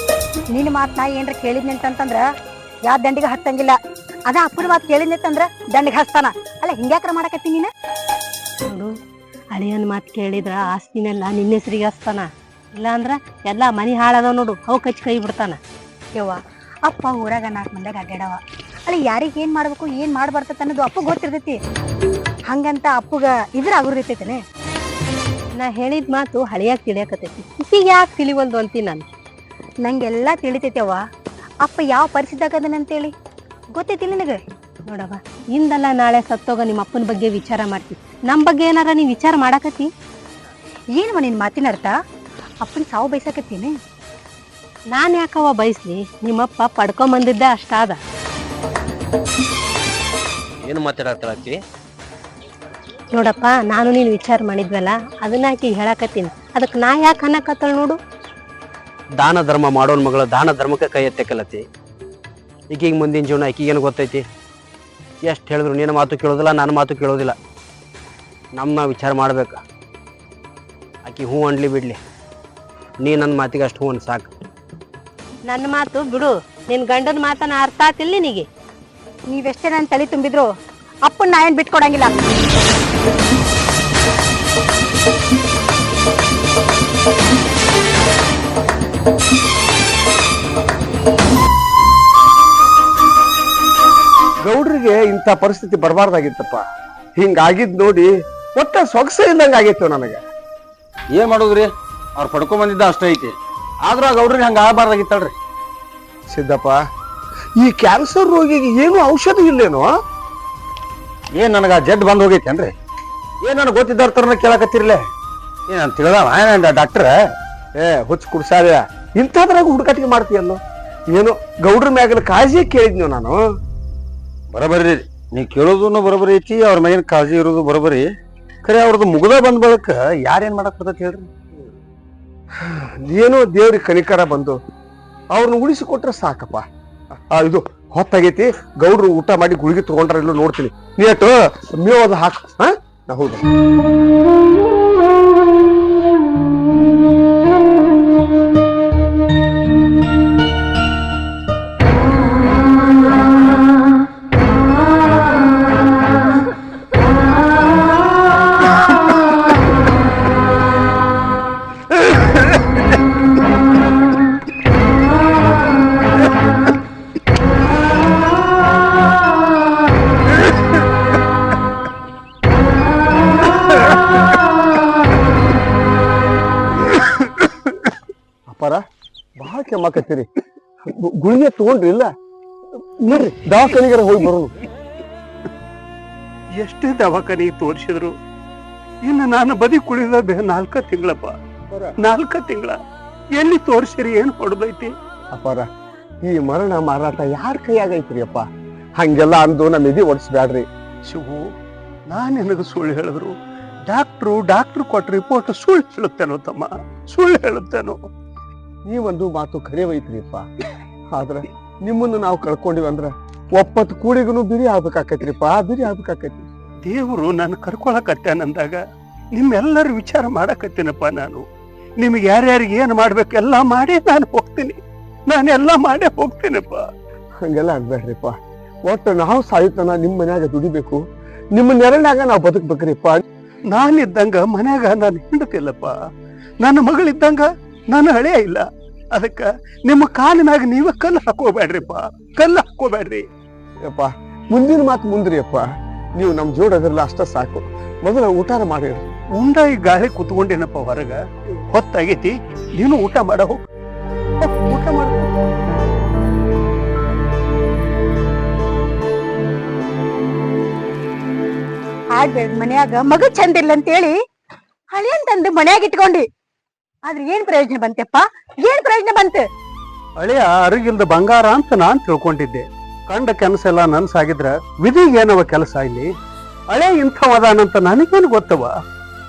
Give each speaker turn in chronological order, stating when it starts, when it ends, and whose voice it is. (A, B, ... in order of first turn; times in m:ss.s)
0:00.5-0:02.2 A
0:02.9-0:07.7 A
0:08.7-0:08.9 B
0:09.5-0:15.6 B
0:16.2-0:21.6 A
0:22.5-0:24.4 A
0:25.6-0:29.0 B
0:29.8-0:31.0 A
0:31.6-0:33.1 A
0:33.8-0:34.4 A
0:34.9-0:39.9 B
0:41.0-0:42.0 A
0:42.6-0:43.8 A
0:44.9-0:48.0 B
0:50.6-0:51.6 C
0:53.1-0:58.0 B
0:59.2-1:01.6 C
1:02.7-1:04.3 C
1:05.2-1:07.4 C
1:08.6-1:09.6 C
1:11.0-1:12.0 C
1:13.0-1:14.3 C
1:15.5-1:18.5 B
1:19.3-1:20.5 A
1:21.1-1:22.1 A
1:34.4-1:36.6 D
1:37.2-1:40.2 D
1:41.1-1:45.3 E
1:46.3-1:46.8 D
1:47.6-1:49.9 D
1:51.3-1:52.7 E
1:53.4-1:55.0 E
1:55.7-1:57.1 E
1:57.8-2:03.4 D
2:04.5-2:08.1 E
2:08.6-2:11.3 E
2:12.6-2:14.6 D
2:15.3-2:23.4 D
2:58.5-2:58.8 D
2:59.4-3:00.3 D
3:00.8-3:02.1 D
3:03.0-3:04.6 D
3:06.6-3:08.2 F
3:09.0-3:11.4 F
3:11.7-3:12.0 D
3:12.0-3:12.8 F
3:13.3-3:14.9 F
3:15.3-3:15.7 D
3:16.2-3:20.7 D
3:21.1-3:21.5 F
3:22.1-3:23.4 F
3:23.9-3:28.0 F
3:28.9-3:30.5 D
3:31.1-3:36.5 D
3:36.9-3:38.8 F
3:39.3-3:41.4 F
3:42.0-3:46.9 F
3:47.4-3:53.2 D
3:53.7-3:56.0 F
3:56.6-4:03.3 F
4:03.8-4:09.1 D
4:09.4-4:13.6 F
4:14.4-4:15.3 F
4:22.1-4:24.2 A
4:24.9-4:26.3 A
4:27.0-4:29.5 A
4:30.2-4:36.1 F
4:36.7-4:38.7 F